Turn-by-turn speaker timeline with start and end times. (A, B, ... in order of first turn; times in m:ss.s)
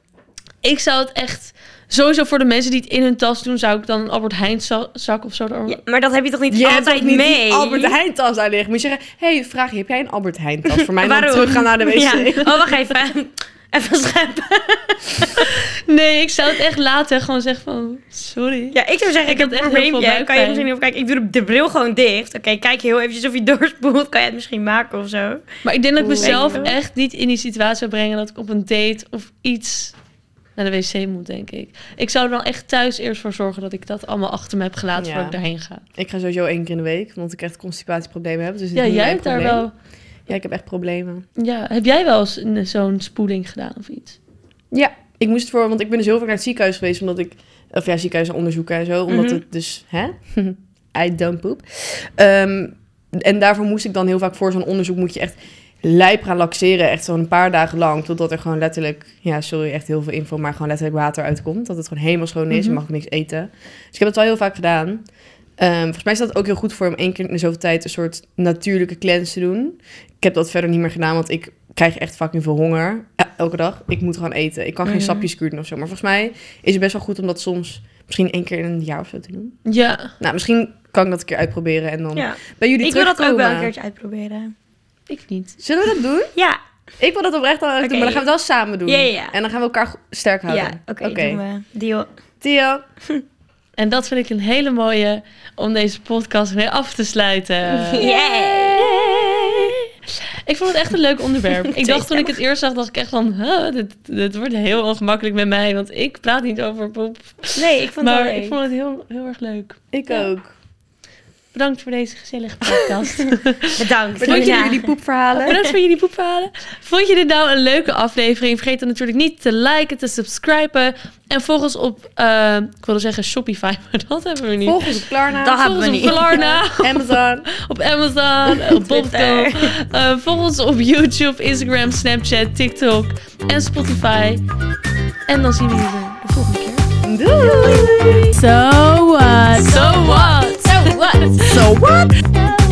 0:00.6-0:05.8 A
0:05.7-0:08.0 B
0:06.5-0:12.7 C
0:10.8-0:15.5 B
0:15.4-0:20.7 A
0:18.7-0:25.5 B
0:25.6-0:30.0 A
0:26.0-0:26.7 C
0:26.2-0:26.8 B
0:30.6-0:35.8 A
0:35.0-0:35.4 C
0:35.9-0:39.6 C
0:38.7-0:39.7 A
0:40.3-0:41.3 C
0:41.4-0:44.2 A
0:44.7-1:05.0 C
0:49.1-0:49.4 B
1:02.5-1:02.8 A
1:05.6-1:19.6 C
1:14.8-1:15.3 B
1:19.6-1:20.1 A
1:20.2-1:23.7 C
1:22.2-1:24.5 B
1:25.1-1:25.6 A
1:25.6-1:26.3 C
1:27.0-1:31.4 C
1:27.8-1:28.2 B
1:28.9-1:29.3 B
1:30.5-1:32.1 B
1:32.4-1:32.8 C
1:33.8-1:39.9 A
1:37.9-1:39.4 B
1:40.5-1:50.3 A
1:41.7-1:42.4 B
1:47.6-1:48.6 B
1:49.9-1:50.5 C
1:51.5-1:54.7 A
1:53.1-1:54.9 B
1:54.2-1:55.6 C
1:55.3-2:14.4 A
1:55.5-1:55.8 B
2:04.6-2:07.5 C
2:05.4-2:06.4 B
2:08.6-2:09.7 B
2:15.3-2:16.9 A
2:17.0-2:18.4 C
2:18.3-2:21.7 A
2:19.6-2:21.4 B
2:21.4-2:22.2 C